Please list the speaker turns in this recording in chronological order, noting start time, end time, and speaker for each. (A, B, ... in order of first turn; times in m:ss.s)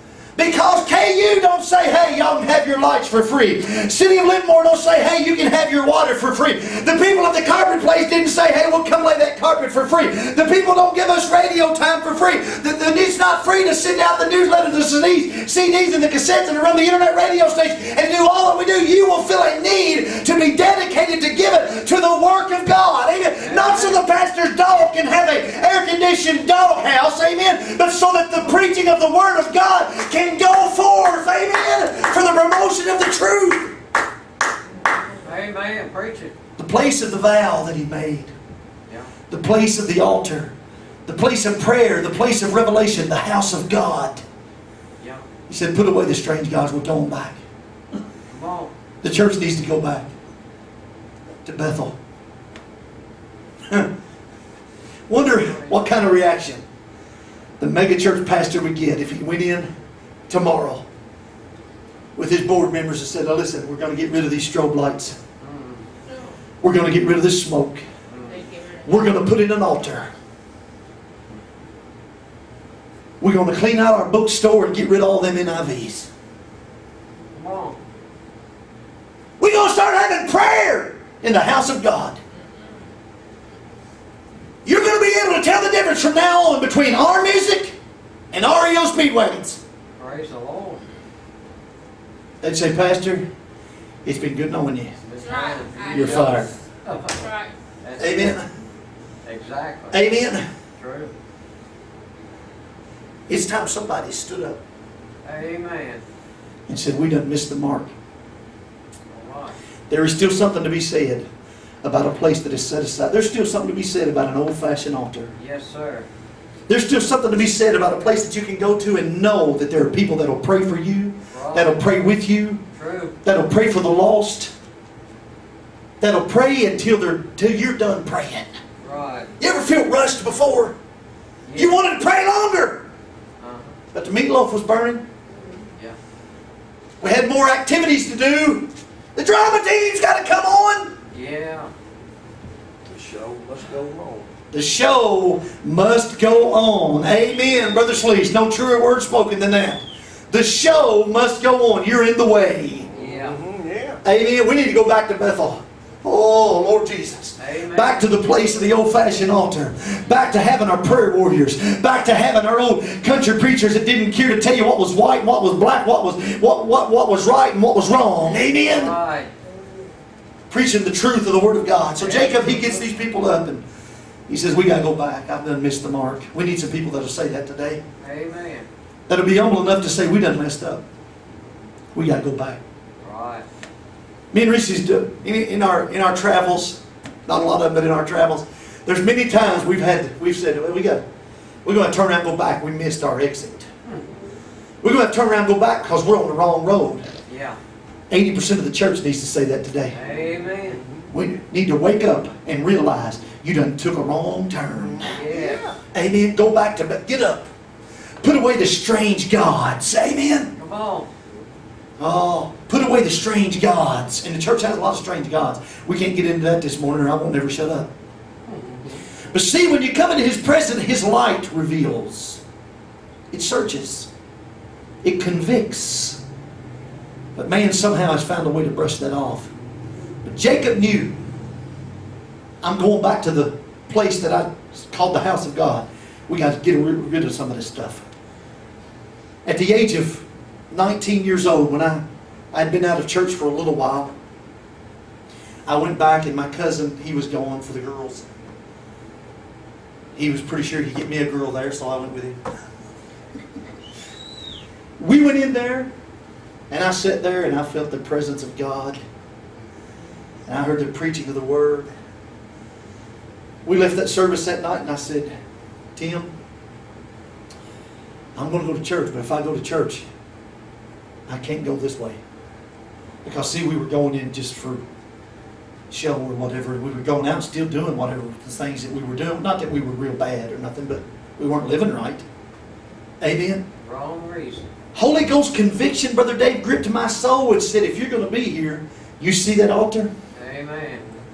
0:00.4-0:33.8 A
0:23.4-0:24.0 B
0:35.2-0:36.3 B
0:36.6-0:38.3 A
0:39.3-0:40.5 A
0:41.1-0:44.2 A
0:45.0-0:45.2 B
0:45.5-0:47.4 A
0:48.3-0:48.7 B
0:49.0-0:50.1 A
0:51.4-0:52.0 A
0:55.1-0:56.6 A
0:55.4-0:55.8 B
0:57.6-0:59.7 A
1:00.3-1:00.8 A
1:02.2-1:05.2 A
1:05.4-1:05.8 B
1:06.6-1:07.8 A
1:08.1-1:08.4 B
1:08.3-1:09.0 C
1:08.8-1:10.1 A
1:13.2-1:16.1 A
1:17.3-1:17.8 B
1:19.4-1:22.2 A
1:24.6-1:27.8 A
1:28.3-1:29.6 A
1:30.0-1:30.8 B
1:32.4-1:33.2 A
1:34.0-1:34.9 A
1:35.0-1:37.2 B
1:35.2-1:36.4 C
1:35.9-1:36.5 A
1:37.1-1:37.5 C
1:37.8-1:38.4 B
1:38.0-1:38.5 A
1:39.2-1:40.1 B
1:39.9-1:40.4 A
1:40.8-1:41.1 B
1:43.3-1:44.6 A
1:45.2-1:46.0 B
1:46.7-1:47.9 A
1:49.1-1:49.6 B
1:49.9-1:51.3 A
1:51.8-1:55.3 A
1:55.4-1:56.1 B
1:56.7-2:02.6 A
2:01.3-2:01.9 B
2:02.7-2:03.2 B
2:03.2-2:04.5 A
2:06.0-2:08.5 A
2:08.8-2:09.3 B
2:09.4-2:10.7 A
2:11.4-2:11.8 B
2:11.5-2:12.8 A
2:13.4-2:13.7 B
2:13.9-2:15.0 A
2:17.0-2:21.0 A
2:21.1-2:21.7 B
2:22.9-2:24.3 D
2:24.5-2:32.9 A
2:32.9-2:34.0 D
2:32.9-2:33.4 B
2:34.0-2:48.9 A
2:37.4-2:38.1 B
2:48.4-2:49.3 B
2:50.5-2:53.6 A
2:52.0-2:52.8 B
2:54.3-2:57.8 A
2:58.0-2:58.7 B
2:59.1-3:00.8 A
3:01.9-3:02.6 A
3:03.0-3:03.4 B
3:04.3-3:11.0 A
3:11.6-3:13.7 A
3:14.8-3:17.1 A
3:17.3-3:17.6 B
3:18.1-3:20.0 A
3:19.9-3:20.8 B
3:21.1-3:25.2 A
3:25.0-3:25.8 B
3:25.2-3:25.7 D
3:25.9-3:27.5 A
3:28.2-3:30.5 A
3:30.6-3:31.1 B
3:32.0-3:37.9 A
3:38.4-3:39.0 B
3:39.3-3:42.4 A
3:43.3-3:44.1 A
3:45.0-3:46.2 A
3:47.4-3:49.5 A
3:50.2-3:51.1 A
3:52.6-3:58.0 A
3:59.4-4:04.1 A
4:05.6-4:08.2 A
4:10.2-4:12.4 A
4:15.0-4:15.9 A
4:16.7-4:19.0 A
4:20.5-4:21.9 A
4:23.6-4:25.3 A
4:26.0-4:26.3 A
4:28.4-4:30.0 A
4:31.3-4:32.2 A
4:33.2-4:34.8 A
4:35.9-4:42.2 A
4:43.2-4:43.6 A
4:43.8-4:44.7 B
4:44.9-4:50.1 A
4:50.3-4:51.1 B